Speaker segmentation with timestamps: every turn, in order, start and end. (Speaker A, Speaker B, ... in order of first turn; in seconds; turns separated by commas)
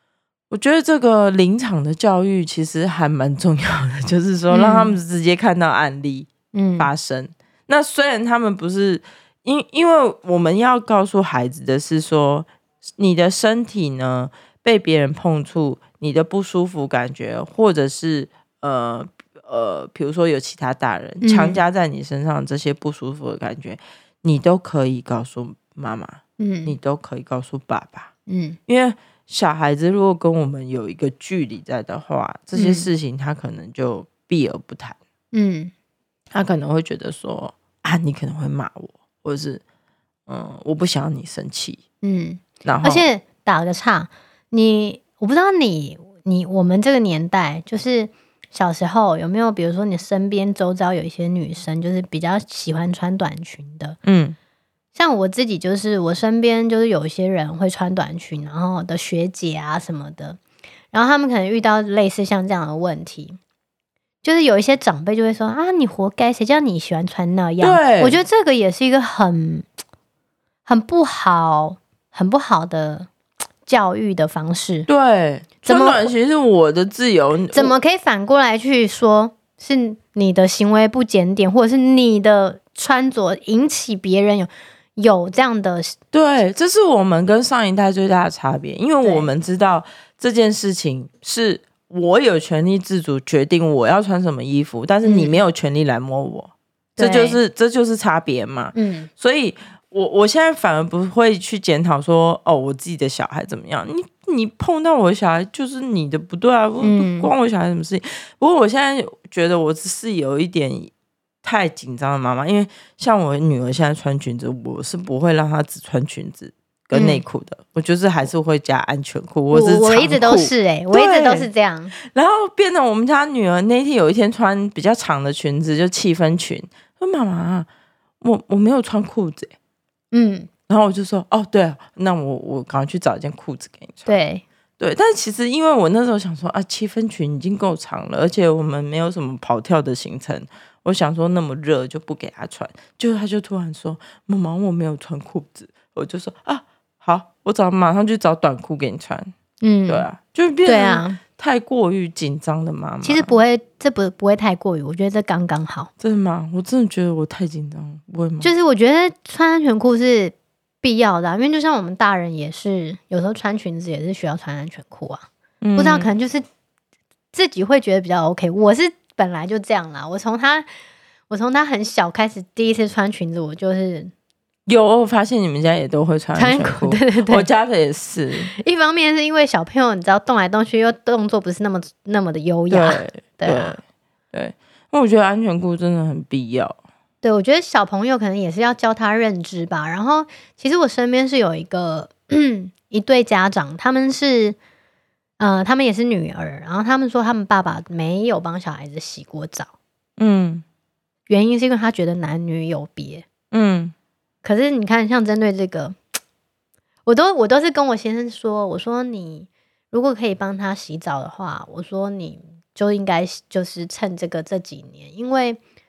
Speaker A: 0.5-28.1, Speaker B: 4.5-5.0, Speaker B: 6.5-6.9, Speaker B: 21.2-21.6, Speaker B: 26.4-26.7, Speaker B: 28.3-28.6, Speaker A: 28.7-35.0, Speaker B: 32.5-32.9, Speaker B: 35.3-35.7, Speaker A: 36.3-39.6, Speaker A: 40.3-41.8, Speaker B: 42.0-54.0, Speaker A: 42.6-43.1, Speaker A: 54.0-54.4, Speaker B: 55.0-60.4, Speaker B: 60.9-63.4, Speaker B: 64.2-69.7, Speaker A: 67.6-68.2, Speaker B: 70.7-73.1, Speaker B: 73.7-74.9, Speaker A: 74.9-77.7, Speaker B: 75.7-76.1, Speaker B: 77.5-86.0, Speaker A: 86.1-110.9, Speaker B: 89.0-89.3, Speaker B: 95.0-95.4, Speaker B: 97.0-97.4, Speaker B: 98.7-99.1, Speaker B: 106.8-107.3, Speaker A: 111.4-121.5, Speaker B: 116.9-117.2, Speaker B: 119.5-121.9, Speaker A: 122.0-127.7, Speaker A: 128.2-129.5, Speaker B: 130.1-130.5, Speaker A: 130.7-134.1, Speaker B: 134.1-134.4, Speaker A: 134.8-149.3, Speaker B: 149.6-150.1, Speaker A: 149.9-153.3, Speaker B: 150.7-151.2, Speaker B: 153.0-155.9, Speaker A: 156.0-158.5, Speaker B: 158.4-165.2, Speaker A: 165.6-166.1, Speaker B: 165.8-166.4, Speaker B: 167.3-170.7, Speaker B: 171.3-174.1, Speaker A: 174.7-178.5, Speaker B: 176.4-177.5, Speaker B: 178.6-183.8, Speaker A: 182.7-183.8, Speaker A: 184.3-186.8, Speaker B: 187.2-194.6, Speaker B: 195.4-199.7, Speaker A: 200.2-200.6, Speaker B: 201.3-203.3, Speaker A: 203.5-203.9, Speaker B: 204.4-206.0, Speaker B: 207.1-215.6